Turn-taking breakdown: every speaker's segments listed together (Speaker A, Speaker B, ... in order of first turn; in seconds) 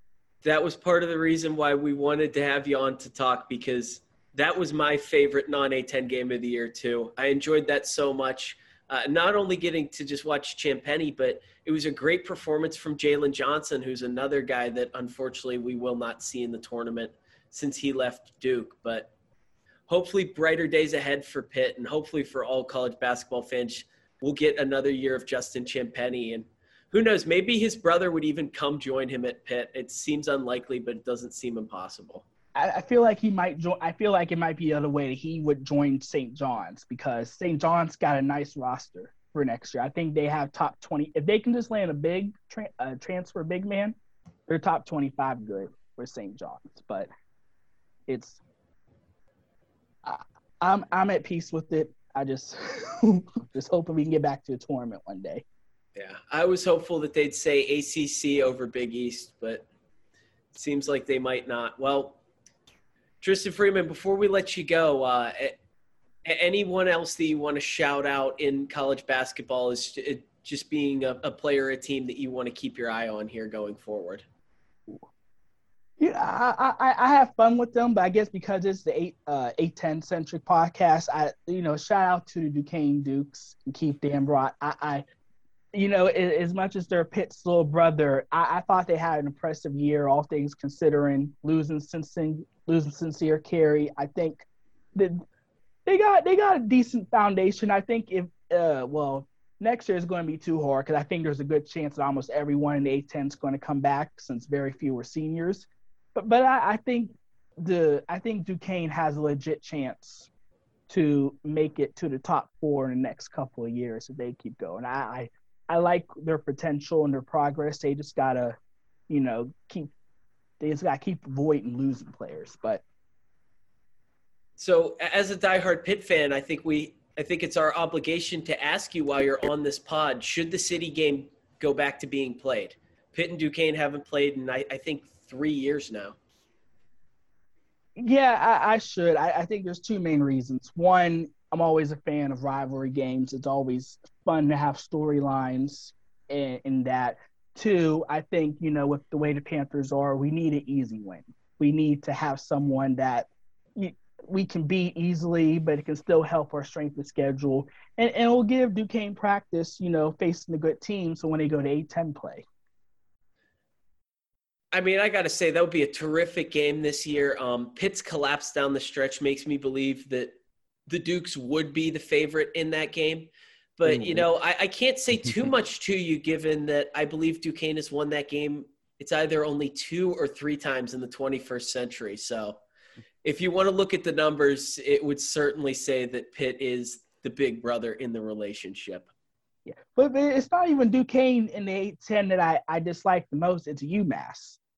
Speaker A: 0.4-19.1, 19.9-32.2, 56.0-59.6, 60.5-62.2, 63.2-65.6, 66.2-74.2, 124.6-136.2, 164.7-170.3, 170.9-182.6, 183.2-189.1
Speaker B: 32.5-44.0, 44.5-47.1, 48.1-48.4, 50.0-55.4, 76.0-85.0, 85.7-95.2, 95.9-110.3, 110.9-118.6, 119.1-119.9, 120.6-122.8, 138.0-162.4, 189.7-194.6